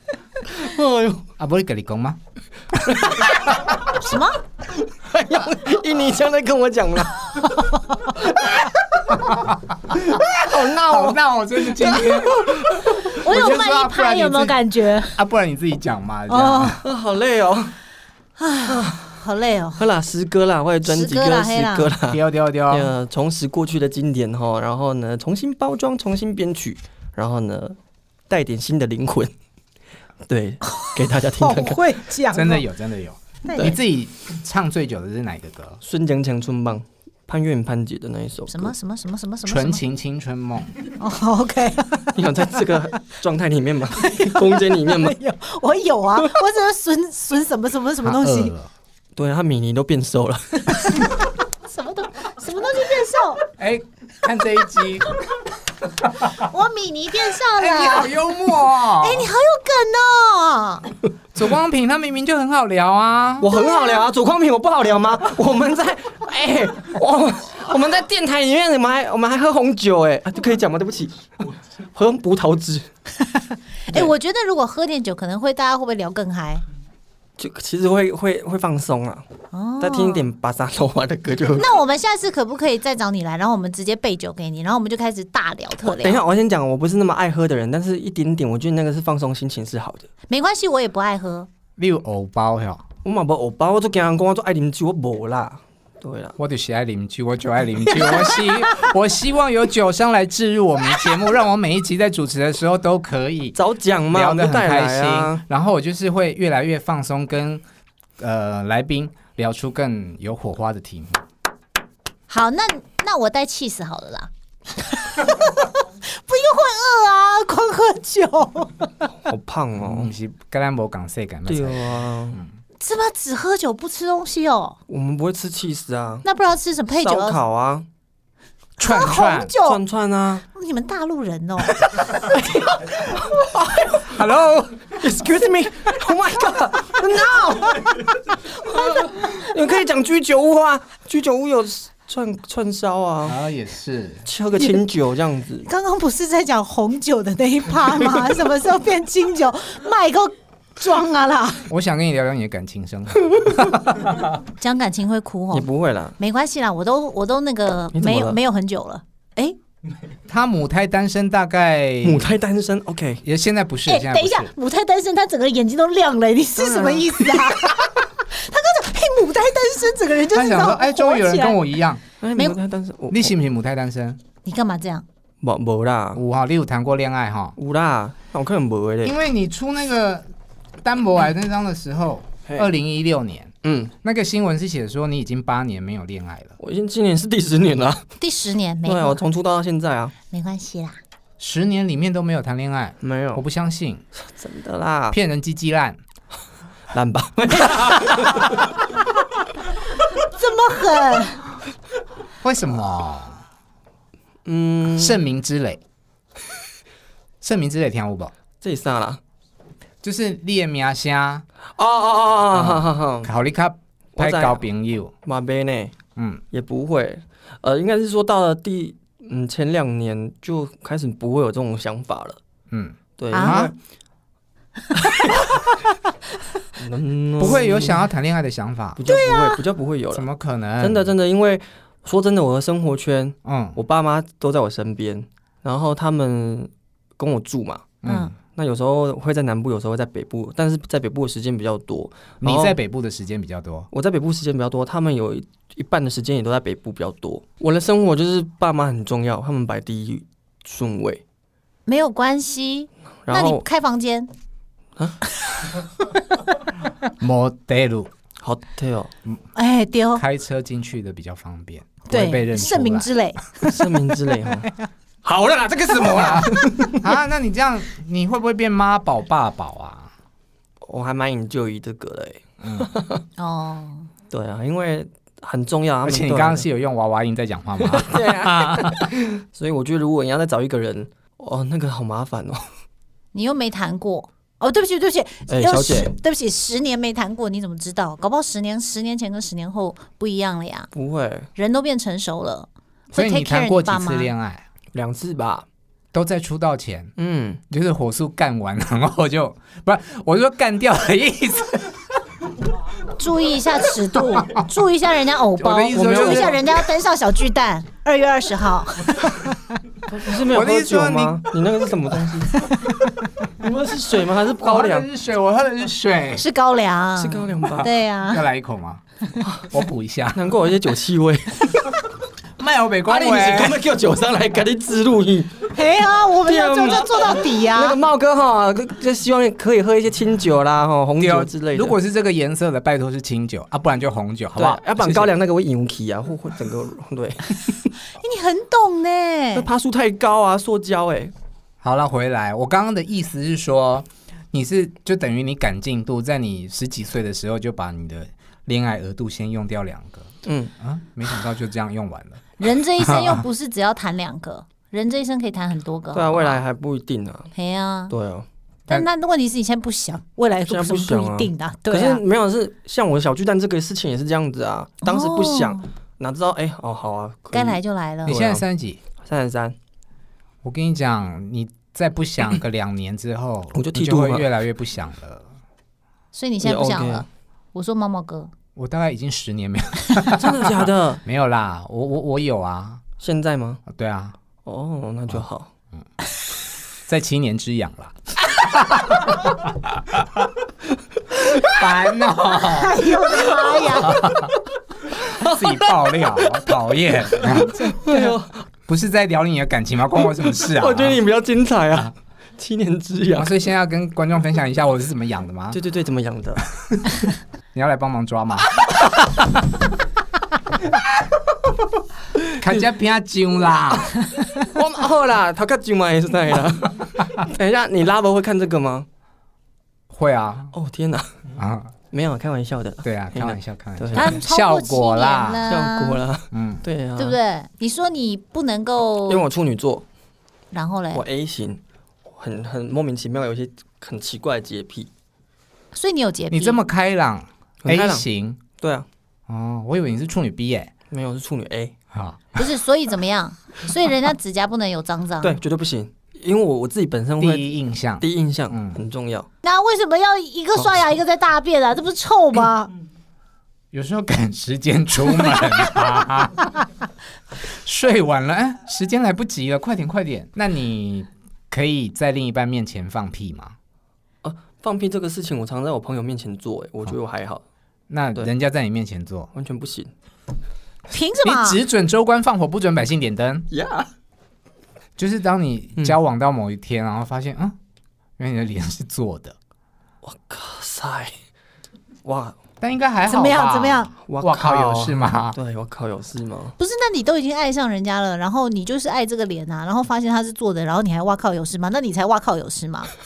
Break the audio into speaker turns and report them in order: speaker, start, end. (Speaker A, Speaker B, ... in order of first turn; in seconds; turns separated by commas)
Speaker A: 0.5-1.2, Speaker B: 1.4-2.2, Speaker A: 2.9-3.8, Speaker C: 4.0-4.4, Speaker A: 4.8-7.5, Speaker A: 8.2-8.6, Speaker B: 9.1-14.6, Speaker A: 10.0-13.1, Speaker C: 13.1-15.2, Speaker B: 15.1-16.8, Speaker C: 16.3-16.8, Speaker A: 16.8-17.8, Speaker C: 18.4-19.8, Speaker A: 18.6-19.2, Speaker A: 19.8-27.8, Speaker C: 20.8-21.9, Speaker B: 22.1-22.9, Speaker A: 28.3-29.3, Speaker A: 30.3-31.9, Speaker C: 30.6-32.6, Speaker B: 32.3-35.8, Speaker C: 33.5-33.7, Speaker A: 35.8-38.7, Speaker C: 38.5-39.8, Speaker B: 39.5-40.7, Speaker C: 41.0-42.3, Speaker A: 42.1-45.1, Speaker C: 44.0-48.5, Speaker B: 48.0-48.7, Speaker A: 49.1-51.1, Speaker C: 50.7-53.4, Speaker B: 53.6-55.2, Speaker C: 56.2-58.1, Speaker B: 57.5-59.3, Speaker C: 58.9-60.9, Speaker B: 61.4-63.5, Speaker A: 63.4-71.3, Speaker C: 63.4-64.1, Speaker A: 71.9-72.9, Speaker C: 73.4-76.6, Speaker A: 77.4-79.2, Speaker C: 79.5-80.2, Speaker A: 79.8-81.7, Speaker C: 81.6-86.2, Speaker A: 85.8-90.1, Speaker C: 90.3-91.5, Speaker B: 91.8-92.8, Speaker A: 93.0-96.4, Speaker B: 96.4-103.5, Speaker A: 103.5-105.4, Speaker B: 104.1-107.6, Speaker B: 108.2-111.2, Speaker C: 112.3-119.1, Speaker A: 119.2-120.1, Speaker B: 119.8-122.5, Speaker A: 121.5-122.4, Speaker C: 122.8-124.8, Speaker A: 124.9-126.2, Speaker C: 126.2-127.4, Speaker A: 126.9-127.9, Speaker B: 128.8-129.5, Speaker C: 128.8-129.8, Speaker A: 129.6-130.4, Speaker C: 130.5-131.8, Speaker A: 132.3-134.1, Speaker B: 134.0-134.9, Speaker A: 134.9-138.2, Speaker C: 138.7-139.4, Speaker A: 138.7-143.4, Speaker B: 143.2-144.2, Speaker A: 144.2-145.7, Speaker C: 145.6-151.7, Speaker B: 151.7-154.3, Speaker C: 154.6-155.7, Speaker A: 155.5-156.2, Speaker C: 156.2-159.6, Speaker A: 157.9-158.4, Speaker B: 160.3-162.3, Speaker A: 162.0-163.2, Speaker B: 163.2-164.5, Speaker C: 163.9-171.6, Speaker A: 166.6-167.6, Speaker B: 170.3-172.0, Speaker A: 172.2-173.3, Speaker B: 173.1-174.2, Speaker C: 174.4-175.0, Speaker A: 175.4-176.2, Speaker B: 176.1-177.6, Speaker A: 177.6-179.2, Speaker B: 179.0-180.2, Speaker B: 180.8-186.6, Speaker A: 183.6-183.9, Speaker A: 186.6-188.1, Speaker C: 188.2-189.2, Speaker A: 188.8-190.1, Speaker C: 190.3-191.0, Speaker B: 191.4-194.0, Speaker A: 193.0-193.4, Speaker A: 194.2-195.2, Speaker B: 195.1-196.0, Speaker A: 196.9-198.8, Speaker C: 200.2-201.4, Speaker B: 202.4-203.4, Speaker A: 204.5-205.2, Speaker B: 204.9-205.8, Speaker B: 207.4-208.3, Speaker A: 208.6-209.2, Speaker B: 210.0-211.4, Speaker A: 211.8-213.3, Speaker B: 212.5-215.1, Speaker A: 214.2-214.6, Speaker A: 215.2-215.9, Speaker B: 216.2-216.4, Speaker A: 216.5-222.4, Speaker B: 222.7-223.7, Speaker A: 223.2-223.8, Speaker C: 223.3-223.6, Speaker A: 225.0-225.4, Speaker A: 226.8-228.1, Speaker B: 227.4-229.0, Speaker A: 229.0-230.3, Speaker C: 229.1-229.6, Speaker B: 230.1-231.1, Speaker A: 230.8-242.8, Speaker B: 233.4-233.8, Speaker B: 238.0-238.3, Speaker C: 238.0-238.3, Speaker B: 242.4-243.9, Speaker A: 243.9-251.2, Speaker C: 251.9-254.3, Speaker A: 253.2-253.6, Speaker B: 257.2-258.1, Speaker A: 258.4-259.1, Speaker C: 259.5-260.2, Speaker B: 260.1-263.1, Speaker C: 262.1-263.8, Speaker A: 263.6-264.7, Speaker A: 265.2-267.0, Speaker B: 266.0-270.1, Speaker A: 270.8-273.2, Speaker B: 272.6-272.9, Speaker C: 273.4-274.1, Speaker A: 274.3-276.6, Speaker B: 276.0-279.1, Speaker A: 277.8-282.6, Speaker C: 283.3-290.9, Speaker A: 285.5-286.1, Speaker A: 290.9-291.5, Speaker C: 291.6-294.3, Speaker B: 293.1-294.6, Speaker A: 294.9-295.6, Speaker B: 296.1-297.1, Speaker A: 297.2-297.6, Speaker B: 297.7-302.1, Speaker C: 303.2-309.7, Speaker B: 305.6-306.6, Speaker A: 305.9-306.7, Speaker A: 310.1-312.5, Speaker B: 310.5-311.5, Speaker A: 313.6-315.1, Speaker B: 314.6-316.4, Speaker C: 316.4-318.4, Speaker A: 317.2-317.9, Speaker B: 318.3-319.0, Speaker A: 319.4-319.7, Speaker B: 319.7-320.4, Speaker A: 320.3-322.0, Speaker B: 322.6-323.8, Speaker A: 323.1-325.7, Speaker C: 325.7-328.0, Speaker A: 326.4-332.0, Speaker B: 331.2-335.3, Speaker A: 334.6-337.9, Speaker C: 338.1-339.7, Speaker A: 339.5-341.3, Speaker B: 341.8-353.4, Speaker A: 350.5-350.7, Speaker C: 352.6-356.6, Speaker A: 356.1-357.5, Speaker C: 357.5-358.1, Speaker A: 358.1-358.5, Speaker C: 358.9-362.2, Speaker A: 360.7-368.6, Speaker C: 365.0-365.8, Speaker C: 367.5-368.3, Speaker B: 368.3-369.0, Speaker A: 369.2-369.8, Speaker B: 370.6-375.5, Speaker A: 373.7-374.5, Speaker C: 376.3-378.5, Speaker A: 376.6-377.2, Speaker B: 378.8-383.0, Speaker A: 380.3-381.2, Speaker A: 383.2-383.8, Speaker B: 383.9-384.3, Speaker A: 384.6-385.7, Speaker B: 387.0-390.5, Speaker B: 391.6-393.2, Speaker C: 392.6-394.2, Speaker A: 393.4-394.3, Speaker B: 394.0-394.5, Speaker A: 395.2-398.6, Speaker B: 395.2-397.9, Speaker C: 397.6-398.3, Speaker B: 398.9-401.2, Speaker A: 400.2-403.6, Speaker B: 403.4-405.8, Speaker A: 405.7-406.7, Speaker B: 406.8-407.2, Speaker B: 407.7-409.6, Speaker B: 412.6-414.1, Speaker A: 414.5-419.1, Speaker B: 420.1-420.7, Speaker A: 420.7-421.5, Speaker B: 421.6-421.9, Speaker A: 422.1-424.4, Speaker B: 423.0-425.7, Speaker C: 424.1-426.2, Speaker A: 425.7-427.4, Speaker B: 426.5-426.8, Speaker C: 427.2-429.4, Speaker A: 429.3-430.0, Speaker C: 430.7-431.2, Speaker A: 431.1-431.8, Speaker A: 432.3-435.1, Speaker C: 435.9-436.8, Speaker B: 436.5-438.6, Speaker A: 437.8-438.2, Speaker A: 438.8-439.1, Speaker B: 439.5-440.9, Speaker A: 441.1-441.9, Speaker B: 442.1-442.6, Speaker C: 442.6-445.6, Speaker A: 445.4-449.5, Speaker B: 447.4-449.0, Speaker C: 449.6-452.9, Speaker B: 453.9-456.8, Speaker B: 457.6-463.8, Speaker A: 464.4-467.6, Speaker B: 468.1-469.5, Speaker A: 469.5-470.1, Speaker C: 471.1-471.8, Speaker B: 471.4-473.7, Speaker A: 473.7-474.1, Speaker B: 475.2-477.8, Speaker B: 478.4-479.6, Speaker A: 480.2-481.3, Speaker A: 482.2-482.6, Speaker B: 482.8-485.6, Speaker C: 483.3-484.1, Speaker A: 484.3-486.8, Speaker C: 486.8-493.2